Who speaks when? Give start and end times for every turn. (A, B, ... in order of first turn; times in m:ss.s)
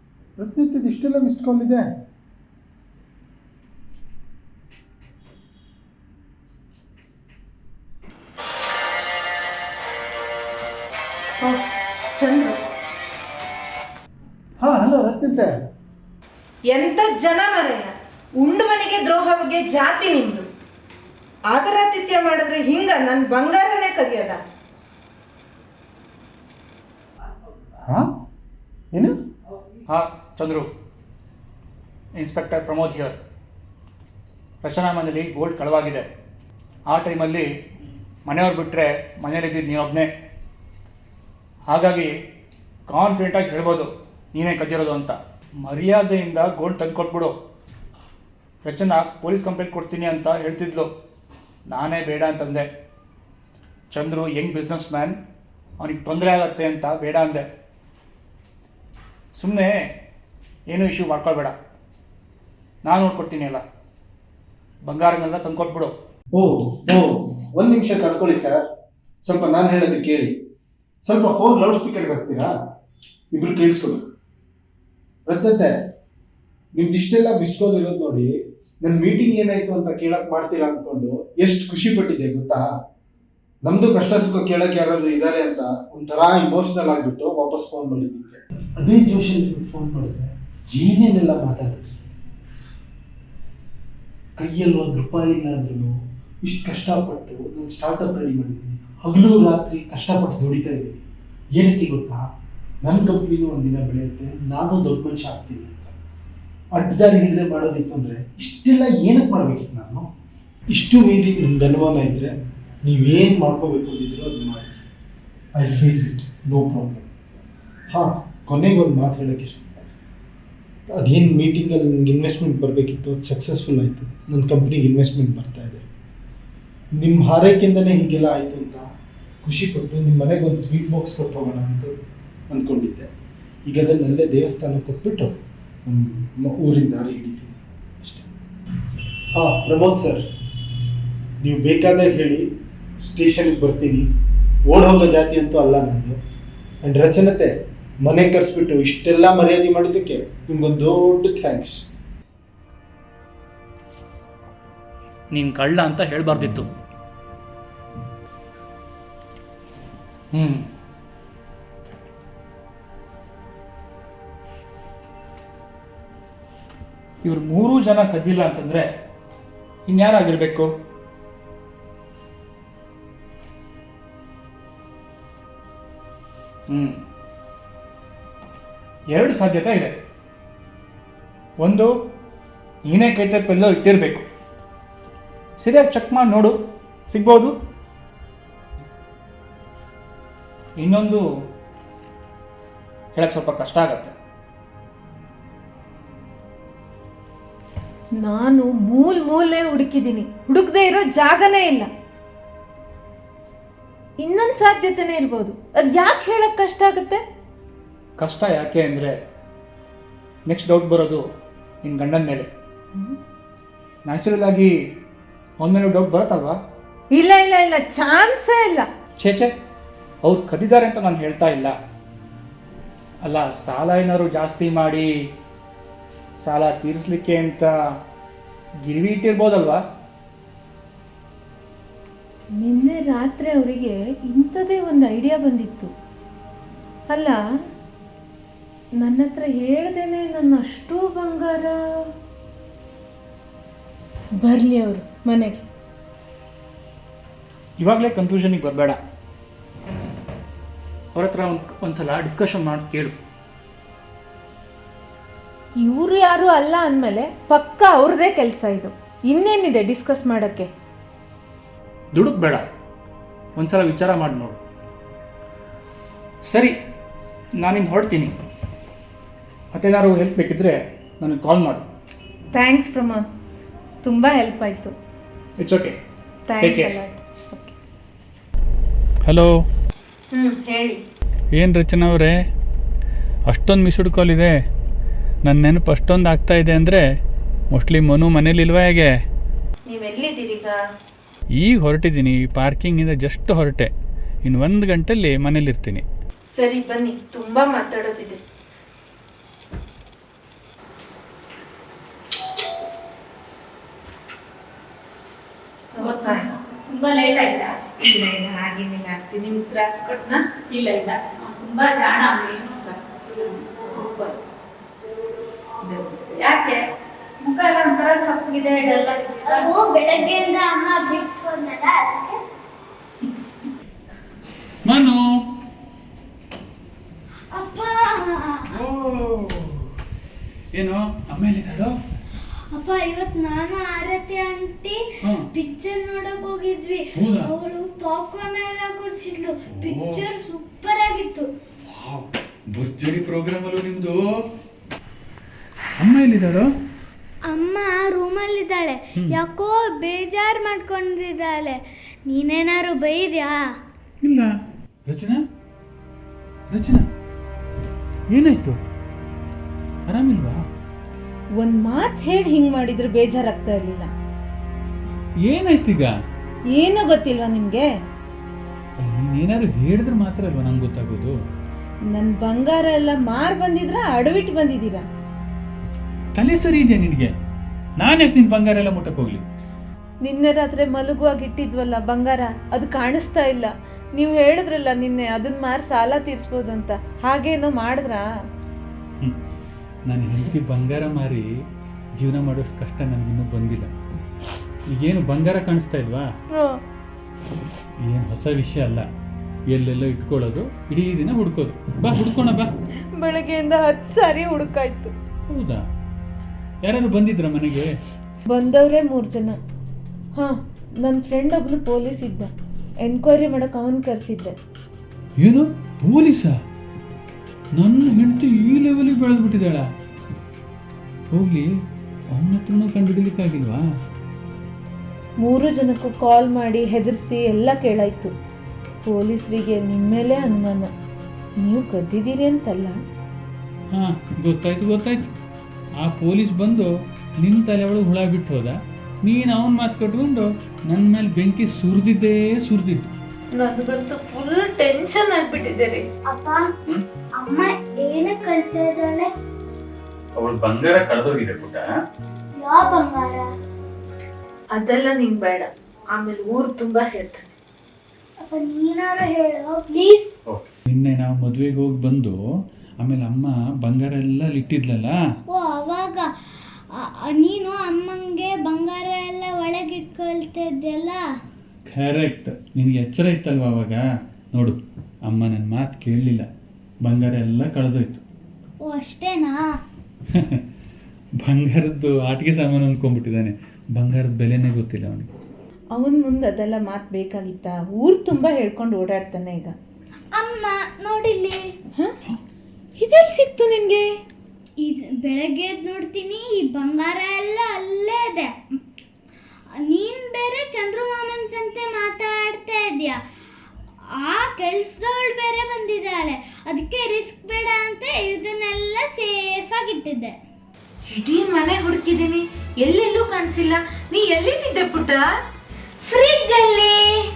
0:00.4-0:01.9 A
0:12.1-0:12.6 B
0:14.6-0:15.6 A
0:16.7-0:20.5 B
0:21.5-0:24.4 B
0:29.9-0:30.7 C
0:32.2-0:33.2 C
0:34.6-0:36.1 C
0:36.9-0:37.5 C
0:38.2-0:40.1 C
0:41.7-0:42.1 C
0:42.9-0:47.3 C
0:48.6-0:50.9 C
0:51.7-0:52.7 C
0:53.9-0:55.2 C
0:55.8-0:57.5 C
0:59.4-0:59.8 C
1:00.7-1:01.5 C
1:02.8-1:03.6 C
1:04.8-1:05.9 C
1:06.3-1:08.6 A
1:09.2-1:10.3 A
1:11.0-1:12.5 A
1:13.3-1:14.0 A
1:15.3-1:15.8 A
1:16.7-1:22.7 A
1:23.6-1:32.0 A
1:34.4-1:41.0 A
1:41.5-1:42.2 A
1:42.8-1:45.9 A
1:46.7-1:50.0 A
1:50.7-1:54.8 A
1:55.5-1:57.1 A
1:57.9-1:59.9 A
2:00.9-2:05.8 A
2:07.0-2:08.9 A
2:09.4-2:11.9 A
2:12.5-2:13.1 A
2:13.6-2:15.3 A
2:15.8-2:18.3 A
2:19.3-2:20.2 A
2:21.4-2:22.5 A
2:23.0-2:24.1 A
2:24.6-2:26.2 A
2:26.8-2:31.8 A
2:35.3-2:36.7 C
2:40.3-2:40.6 C
2:47.2-2:48.9 C
2:49.9-2:50.7 C
2:56.7-2:57.0 C
2:59.1-2:59.9 C
3:01.6-3:01.9 C
3:02.9-3:04.2 C
3:05.6-3:06.5 C
3:07.1-3:07.5 C
3:10.8-3:11.2 C
3:13.1-3:14.1 C
3:18.2-3:21.9 B
3:24.2-3:27.2 B
3:28.2-3:29.2 C
3:30.5-3:31.2 C
3:31.8-3:32.5 C
3:32.9-3:33.2 B
3:34.1-3:34.7 C
3:35.6-3:36.6 C
3:37.1-3:38.9 B
3:39.2-3:39.5 C
3:40.2-3:41.7 C
3:43.2-3:45.1 C
3:46.4-3:47.7 C
3:48.8-3:49.8 C
3:52.6-3:55.9 B
3:57.1-3:57.4 B
3:59.0-4:02.1 B
4:04.4-4:05.6 B
4:07.8-4:09.0 C
4:11.1-4:13.1 C
4:15.8-4:20.7 B
4:22.1-4:22.6 C
4:23.6-4:24.6 C
4:26.5-4:26.7 C
4:27.6-4:28.3 C
4:29.7-4:31.8 C
4:32.5-4:33.3 B
4:34.0-4:34.9 B
4:35.6-4:36.0 C
4:36.5-4:37.7 B
4:36.6-4:36.9 C
4:39.2-4:39.5 D
4:40.3-4:41.0 B
4:41.5-4:42.4 D
4:43.5-4:44.6 D
4:45.4-4:47.0 D
4:47.7-4:49.1 D
4:49.8-4:50.8 B
4:51.5-4:53.9 D
4:54.4-4:56.0 D
4:56.6-4:58.4 B
5:06.0-5:06.5 B
5:06.0-5:07.8 E
5:08.0-5:10.4 B
5:10.7-5:14.1 E
5:13.9-5:14.3 B
5:16.3-5:16.8 E
5:17.4-5:19.7 E
5:19.4-5:22.4 F
5:24.8-5:25.2 D
5:27.5-5:28.7 F
5:28.7-5:29.9 D
5:30.7-5:32.0 D
5:32.7-5:35.0 F
5:35.5-5:41.5 F
5:37.2-5:37.5 D
5:39.8-5:40.2 D
5:41.9-5:44.4 D
5:46.0-5:46.7 D
5:47.5-5:53.6 F
5:54.2-5:54.5 D
5:55.1-5:55.4 D
5:56.7-5:57.0 D
5:58.3-5:58.8 D
6:00.1-6:00.6 D
6:01.5-6:04.1 B
6:05.4-6:06.1 D
6:06.7-6:07.9 B
6:09.0-6:11.3 D
6:12.1-6:15.0 B
6:16.3-6:17.3 D
6:18.0-6:19.4 D
6:20.2-6:28.2 B
6:30.0-6:31.5 D
6:32.2-6:33.9 D
6:34.9-6:36.3 D
6:36.5-6:36.8 B
6:38.0-6:39.1 D
6:39.7-6:42.7 D
6:43.1-6:45.1 B
6:45.5-6:45.8 D
6:46.8-6:47.9 D
6:48.5-6:49.6 B
6:50.4-6:52.5 B
6:53.0-6:54.5 B
6:55.4-6:56.6 D
6:57.8-6:59.8 D
7:01.3-7:01.7 D
7:02.3-7:03.8 D
7:05.4-7:08.3 B
7:09.0-7:10.9 B
7:11.6-7:13.0 B
7:13.9-7:15.3 D
7:16.0-7:16.9 D
7:17.4-7:23.1 D
7:23.5-7:26.1 B
7:26.2-7:26.7 F
7:27.4-7:29.3 F
7:30.4-7:31.9 D
7:32.6-7:33.5 F
7:34.7-7:37.4 B
7:38.4-7:40.4 F
7:40.5-7:42.4 D
7:43.0-7:45.2 D
7:45.5-7:46.3 F
7:46.9-7:51.2 F
7:51.9-7:56.5 D
7:57.0-7:58.2 D
7:58.8-7:59.6 F
8:00.3-8:00.6 D
8:01.4-8:05.3 D
8:05.9-8:09.7 B
8:10.3-8:11.6 F
8:13.0-8:14.2 B
8:14.8-8:18.5 F
8:19.8-8:23.2 F
8:24.2-8:30.4 F
8:31.1-8:35.3 B
8:36.0-8:37.0 B